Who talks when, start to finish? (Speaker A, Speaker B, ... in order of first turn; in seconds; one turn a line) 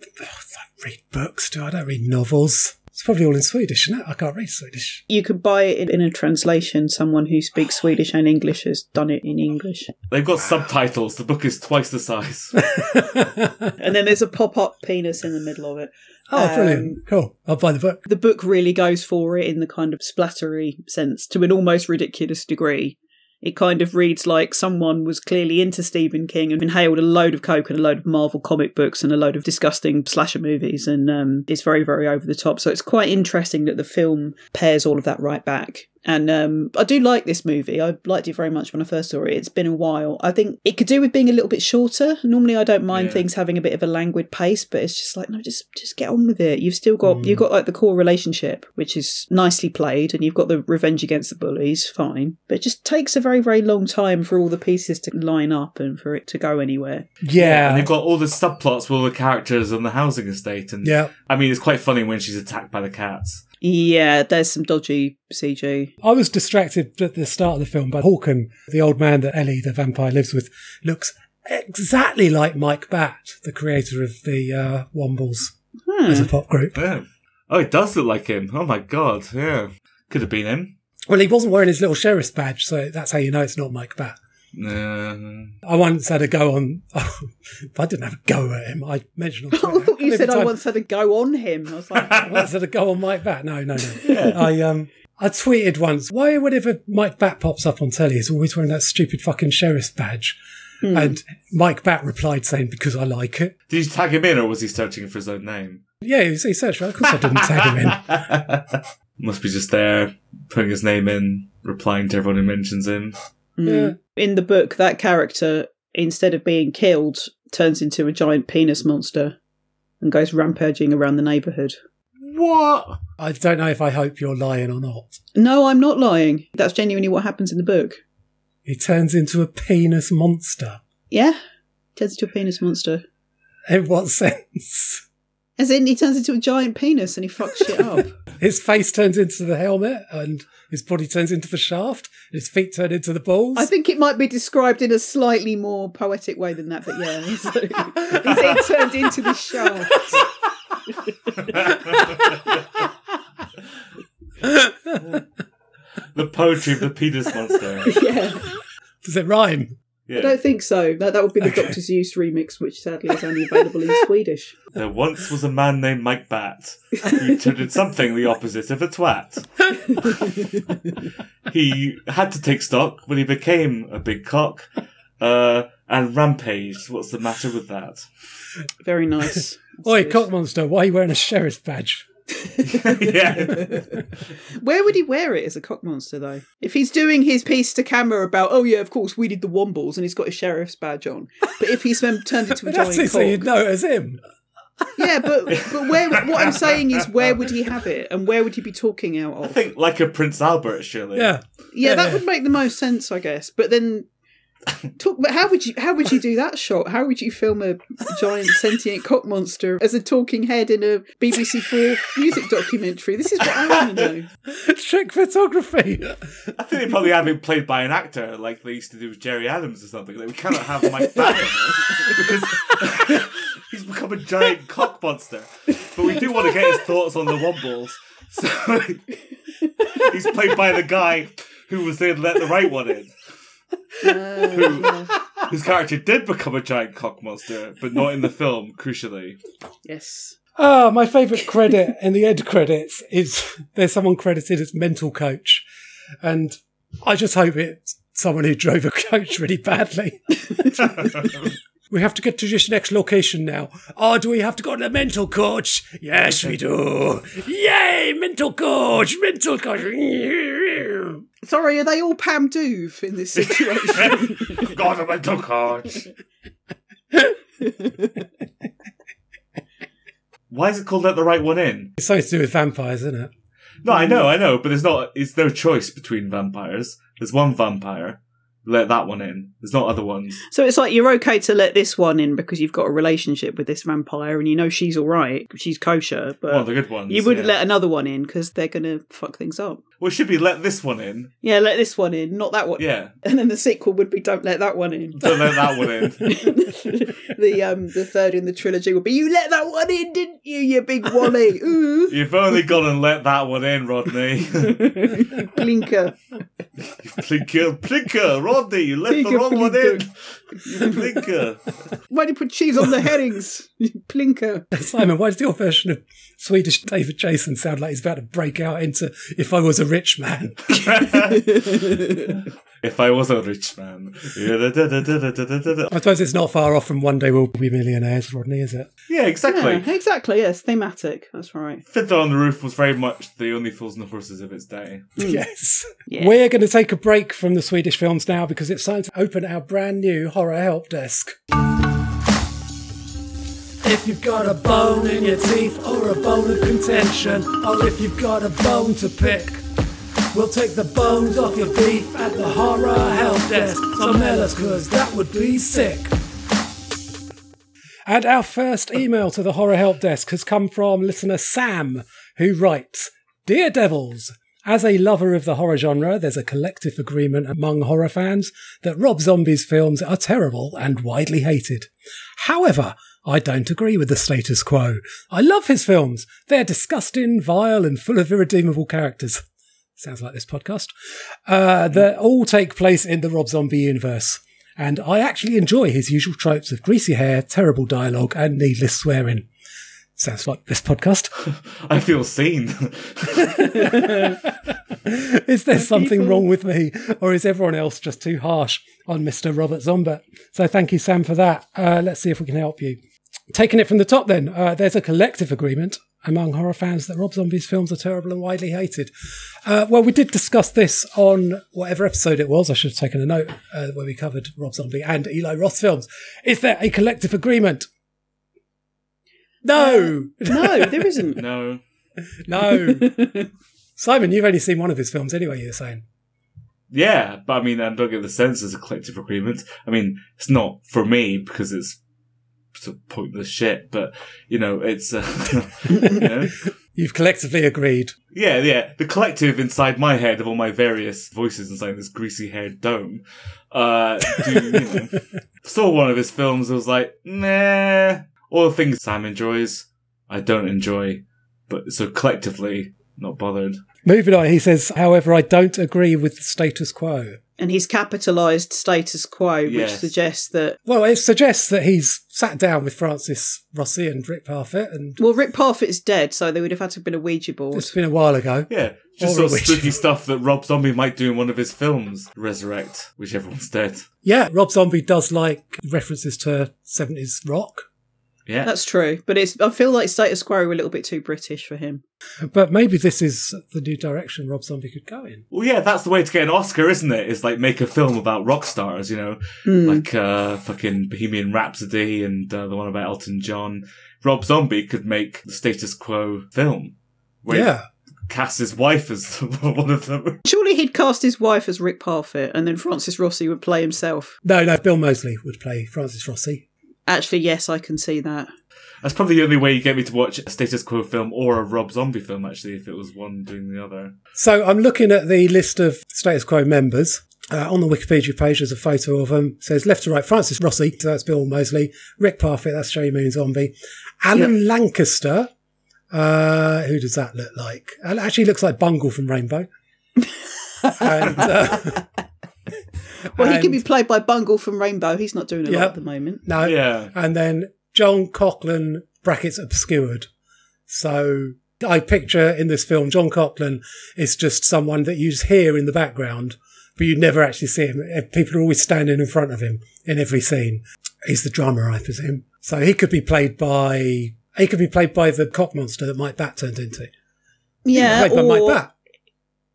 Speaker A: 0.1-5.0
Speaker B: 5.1-9.9
Speaker C: 10.1-12.7
Speaker A: 12.7-13.7
Speaker B: 13.8-17.0
Speaker A: 16.3-18.0
Speaker B: 18.1-57.1
Speaker C: 42.9-43.2
Speaker A: 57.2-57.9
Speaker C: 57.4-63.4
Speaker A: 60.8-61.1
Speaker B: 63.6-65.9
Speaker A: 66.0-75.5
Speaker B: 75.9-76.3
Speaker A: 76.1-76.8
Speaker C: 76.8-80.7
Speaker A: 81.1-84.2
Speaker C: 84.5-85.5
Speaker A: 85.7-90.5
Speaker B: 89.5-92.3
Speaker A: 92.1-100.4
Speaker C: 94.0-94.4
Speaker B: 100.8-101.2
Speaker A: 100.9-103.5
Speaker C: 103.7-105.8
Speaker A: 106.0-108.1
Speaker C: 107.2-113.2
Speaker B: 113.6-119.4
Speaker A: 113.7-114.0
Speaker B: 120.0-121.8
Speaker C: 122.2-123.0
Speaker A: 123.2-125.2
Speaker B: 125.4-128.0
Speaker A: 128.7-130.8
Speaker B: 131.1-131.4
Speaker B: 132.0-133.0
Speaker A: 133.7-135.0
Speaker B: 135.6-138.1
Speaker A: 138.4-143.7
Speaker B: 143.6-150.2
Speaker C: 151.7-152.3
Speaker A: 154.4-155.0
Speaker C: 156.1-158.0
Speaker B: 157.9-158.5
Speaker A: 159.0-159.8
Speaker C: 160.1-160.4
Speaker B: 160.2-164.6
Speaker C: 164.8-170.1
Speaker C: 171.5-174.7
Speaker C: 175.2-178.1
Speaker B: 178.8-180.3
Speaker A: 179.8-182.1
Speaker C: 182.6-183.9
Speaker B: 183.6-183.8
Speaker B: 184.5-193.5
Speaker A: 192.6-194.2
Speaker B: 195.0-199.6
Speaker C: 196.2-196.5
Speaker C: 199.4-201.3
Speaker A: 201.2-202.2
Speaker B: 201.7-204.1
Speaker B: 205.0-214.3
Speaker A: 214.5-216.2
Speaker C: 216.6-229.1
Speaker C: 229.9-233.1
Speaker B: 234.0-235.1
Speaker C: 234.0-239.4
Speaker B: 239.8-240.4
Speaker A: 240.6-245.7
Speaker A: 246.2-251.3
Speaker A: 251.9-261.2
Speaker B: 261.4-264.7
Speaker C: 263.4-266.1
Speaker C: 270.5-271.9
Speaker A: 272.0-273.3
Speaker C: 273.8-280.4
Speaker B: 280.5-289.8
Speaker C: 286.5-287.6
Speaker C: 290.0-291.3
Speaker B: 291.4-302.1
Speaker C: 292.8-293.1
Speaker C: 295.2-296.4
Speaker C: 302.1-305.1
Speaker B: 304.8-306.2
Speaker C: 306.9-311.8
Speaker B: 309.1-310.0
Speaker B: 310.7-311.0
Speaker B: 312.1-314.7
Speaker A: 314.7-320.9
Speaker C: 320.7-322.1
Speaker C: 322.8-325.9
Speaker A: 325.9-328.9
Speaker C: 329.1-329.9
Speaker B: 329.5-331.8
Speaker C: 331.9-335.1
Speaker A: 335.2-341.4
Speaker B: 336.1-336.4
Speaker A: 343.8-349.6
Speaker A: 350.3-356.1
Speaker A: 358.1-379.4
Speaker A: 380.0-380.9
Speaker A: 381.5-389.5
Speaker A: 390.2-391.3
Speaker C: 391.5-393.9
Speaker A: 393.8-403.0
Speaker B: 393.9-394.4
Speaker B: 395.8-396.4
Speaker A: 403.5-409.1
Speaker A: 409.6-417.9
Speaker A: 419.6-421.3
Speaker B: 419.8-421.4
Speaker C: 421.4-421.8
Speaker A: 422.4-423.2
Speaker B: 422.7-423.5
Speaker A: 424.0-426.0
Speaker C: 426.9-432.0
Speaker C: 432.8-436.6
Speaker A: 436.9-438.1
Speaker C: 438.3-453.8
Speaker A: 454.1-457.4
Speaker B: 457.6-460.8
Speaker C: 459.7-460.1
Speaker A: 460.9-465.2
Speaker B: 465.2-467.9
Speaker A: 467.7-468.7
Speaker C: 468.7-474.1
Speaker A: 469.2-470.0
Speaker A: 474.2-477.9
Speaker B: 478.6-482.0
Speaker A: 482.5-485.4
Speaker C: 485.5-497.7
Speaker B: 489.7-490.1
Speaker A: 497.5-497.9
Speaker C: 498.3-500.4
Speaker B: 500.5-504.4
Speaker A: 504.4-506.6
Speaker B: 507.1-508.5
Speaker C: 509.0-514.1
Speaker A: 514.4-525.5
Speaker A: 526.1-529.7
Speaker B: 530.8-531.2
Speaker A: 531.0-532.0
Speaker B: 533.3-536.4
Speaker A: 533.4-533.8
Speaker A: 535.7-540.3
Speaker C: 536.6-537.1
Speaker A: 540.9-557.1
Speaker B: 557.9-558.8
Speaker A: 557.9-558.9